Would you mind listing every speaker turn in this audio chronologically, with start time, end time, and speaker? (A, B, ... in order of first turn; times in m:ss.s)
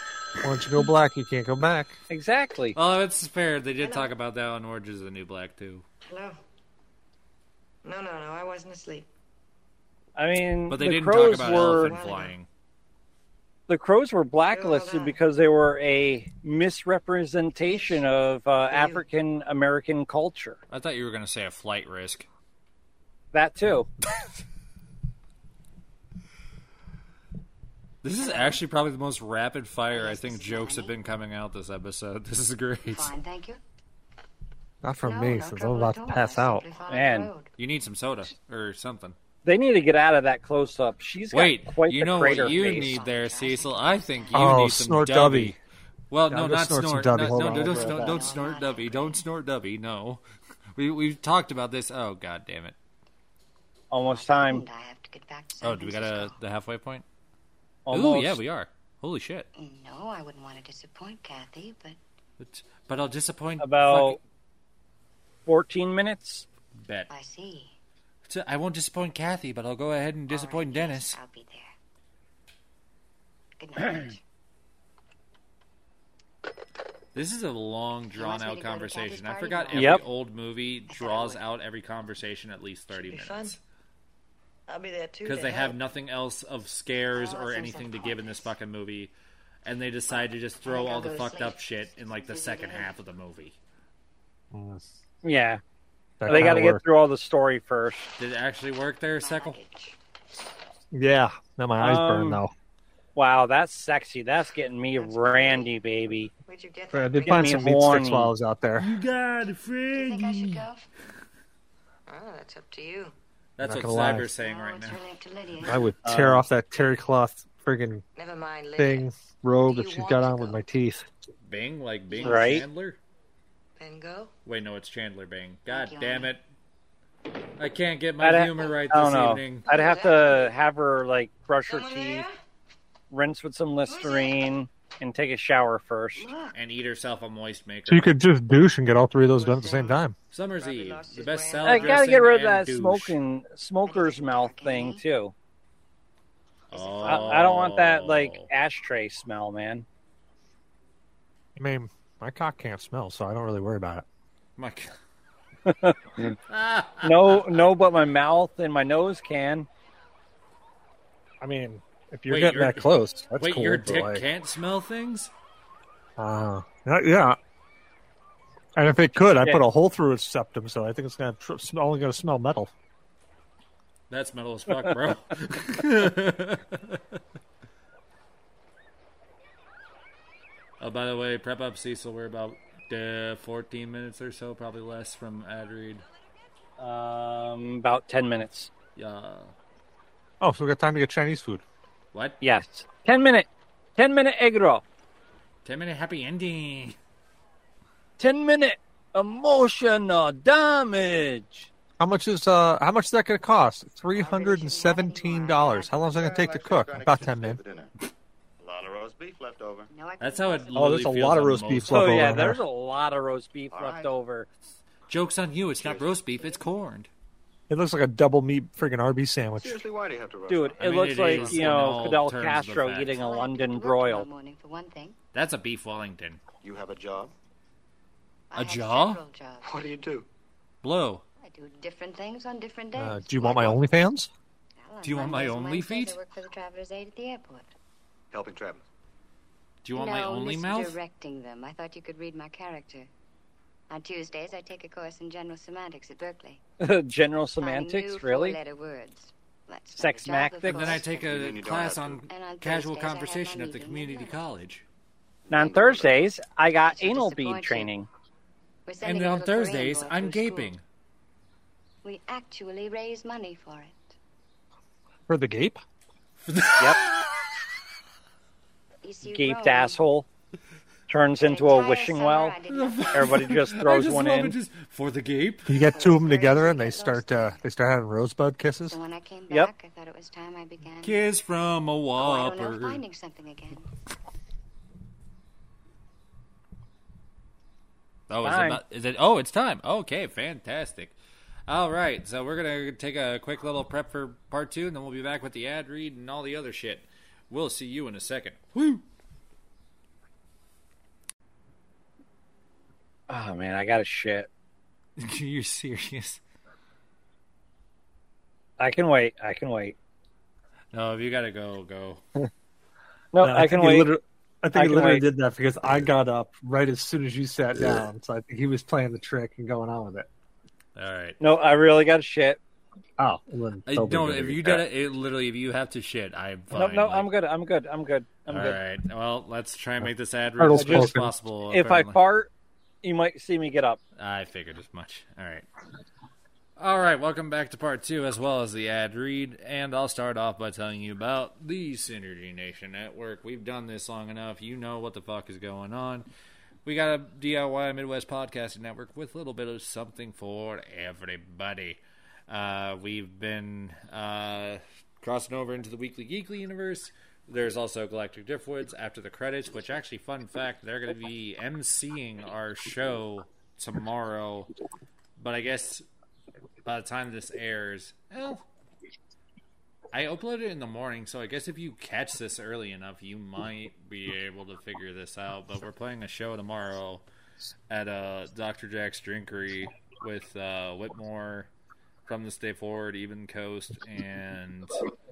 0:00.4-0:02.0 A
0:02.1-0:02.8 B
0:02.8-0:05.8 C
0:03.8-0:04.1 D
0:06.1-0:06.4 D
0:07.8-0:09.1 D
0:10.2-0:12.0 B
0:10.7-0:12.5 C
0:11.2-0:12.4 D
0:13.7-0:20.6 B
0:14.5-0:15.2 D
0:17.7-0:18.0 D
0:18.7-0:19.0 D
0:20.7-0:22.3 C
0:23.3-0:23.9 B
0:28.0-0:33.1 C
0:28.2-0:28.6 E
0:29.9-0:31.0 E
0:32.9-0:33.6 E
0:34.8-0:36.7 A
0:35.0-0:37.5 E
0:36.9-0:37.3 B
0:37.6-0:39.2 C
0:39.4-0:42.9 B
0:41.3-0:45.6 C
0:42.3-0:44.5 E
0:44.3-0:45.6 A
0:46.1-0:50.2 C
0:46.3-0:48.3 A
0:47.4-0:49.2 E
0:50.8-0:52.8 C
0:53.9-0:54.6 B
0:54.1-0:56.4 E
0:55.6-0:57.0 C
0:57.9-0:58.4 B
0:57.9-0:59.5 C
0:59.5-1:02.0 E
1:02.4-1:04.2 C
1:03.6-1:04.2 B
1:05.5-1:06.5 B
1:06.8-1:07.1 C
1:07.1-1:07.8 E
1:08.3-1:11.2 C
1:10.3-1:11.8 E
1:13.6-1:14.2 E
1:17.2-1:23.6 C
1:18.2-1:20.0 E
1:19.8-1:20.0 B
1:20.9-1:21.4 E
1:23.0-1:23.6 D
1:24.7-1:25.8 D
1:25.2-1:33.6 C
1:27.1-1:28.5 E
1:30.1-1:32.9 E
1:34.5-1:34.8 A
1:35.2-1:35.6 B
1:36.2-1:36.8 A
1:36.2-1:38.1 B
1:38.2-1:39.6 C
1:39.2-1:40.0 E
1:40.9-1:42.5 A
1:41.8-1:42.4 B
1:43.2-1:46.3 B
1:45.0-1:45.7 E
1:46.5-1:47.8 D
1:46.9-1:49.0 A
1:47.3-1:48.3 B
1:48.8-1:50.7 C
1:49.9-1:50.8 E
1:52.1-1:53.1 D
1:53.6-1:55.0 C
1:53.6-1:54.3 A
1:54.4-1:55.9 E
1:55.6-1:58.0 A
1:56.0-1:56.4 B
1:58.2-1:59.1 D
1:58.8-2:01.1 A
1:59.6-2:00.6 D
2:01.4-2:03.0 C
2:02.1-2:02.6 E
2:02.2-2:02.6 B
2:03.8-2:04.3 D
2:04.5-2:06.4 C
2:05.7-2:06.3 E
2:07.6-2:09.7 C
2:08.2-2:12.3 B
2:09.7-2:10.5 D
2:11.7-2:12.4 D
2:13.1-2:16.3 B
2:13.9-2:14.4 D
2:16.2-2:16.6 E
2:16.5-2:18.2 C
2:17.9-2:20.2 A
2:19.2-2:20.1 D
2:20.3-2:23.2 C
2:20.6-2:22.2 D
2:21.6-2:25.3 B
2:23.8-2:25.0 E
2:26.7-2:28.5 C
2:26.8-2:27.6 E
2:27.0-2:29.9 B
2:31.6-2:34.0 A
2:34.6-2:35.0 C
2:35.7-2:36.4 B
2:36.5-2:37.7 C
2:37.0-2:39.7 B
2:41.4-2:44.2 A
2:42.3-2:45.3 C
2:46.2-2:47.4 A
2:48.8-2:52.7 A
2:54.1-2:57.0 C
3:00.8-3:06.0 C
3:06.8-3:08.7 B
3:09.0-3:09.5 C
3:10.4-3:11.6 A
3:12.4-3:14.8 B
3:15.6-3:17.0 C
3:18.2-3:21.7 B
3:22.0-3:27.6 A
3:24.1-3:26.0 E
3:25.6-3:27.9 F
3:28.6-3:29.9 F
3:29.9-3:31.1 E
3:30.2-3:32.2 C
3:30.8-3:32.6 A
3:31.9-3:34.5 B
3:33.7-3:34.1 F
3:35.1-3:37.1 C
3:35.8-3:36.2 F
3:36.3-3:36.7 E
3:37.7-3:39.8 A
3:39.6-3:41.9 F
3:40.5-3:44.3 B
3:40.8-3:43.2 C
3:43.0-3:45.2 E
3:45.3-3:46.4 C
3:46.6-3:47.3 F
3:48.5-3:49.9 E
3:48.5-3:49.2 C
3:49.6-3:50.3 F
3:50.8-3:51.2 C
3:51.4-3:53.9 E
3:53.0-3:54.3 A
3:54.8-3:57.7 E
3:55.0-3:56.2 C
3:58.3-3:58.8 F
3:59.8-4:01.0 C
3:59.9-4:03.1 E
4:03.9-4:06.6 E
4:06.8-4:08.6 B
4:07.6-4:11.2 E
4:10.0-4:11.0 B
4:10.7-4:14.8 C
4:11.0-4:12.2 F
4:12.3-4:14.4 E
4:15.5-4:16.3 F
4:15.5-4:18.1 B
4:16.8-4:17.9 E
4:18.9-4:20.8 E
4:19.0-4:20.8 C
4:22.0-4:24.2 E
4:25.3-4:25.8 A
4:26.4-4:27.1 C
4:29.0-4:30.0 E
4:29.2-4:30.3 B
4:31.1-4:32.6 B
4:31.4-4:33.6 E
4:32.7-4:35.7 C
4:33.1-4:34.6 B
4:35.7-4:39.0 A
4:35.8-4:37.6 E
4:38.9-4:41.3 E
4:41.0-4:43.0 C
4:42.2-4:43.9 E
4:48.3-4:51.2 C
4:48.4-4:48.8 B
4:51.7-4:59.0 C
5:03.3-5:04.5 B
5:05.2-5:06.4 C
5:08.8-5:10.0 B
5:10.9-5:12.2 C
5:13.3-5:14.1 B
5:13.4-5:20.3 A
5:14.8-5:15.2 B
5:21.0-5:21.4 C
5:21.4-5:22.6 B
5:23.2-5:24.8 A
5:23.9-5:27.3 C
5:26.7-5:28.8 B
5:28.5-5:32.2 C
5:30.0-5:31.3 A
5:30.8-5:31.2 B
5:31.7-5:32.5 B
5:33.0-5:34.0 B
5:34.2-5:35.6 C
5:36.8-5:46.3 C
5:46.8-6:04.7 C
6:05.4-6:06.1 C
6:06.8-6:08.6 C
6:10.1-6:17.2 C
6:17.9-6:21.7 C
6:22.3-6:25.0 C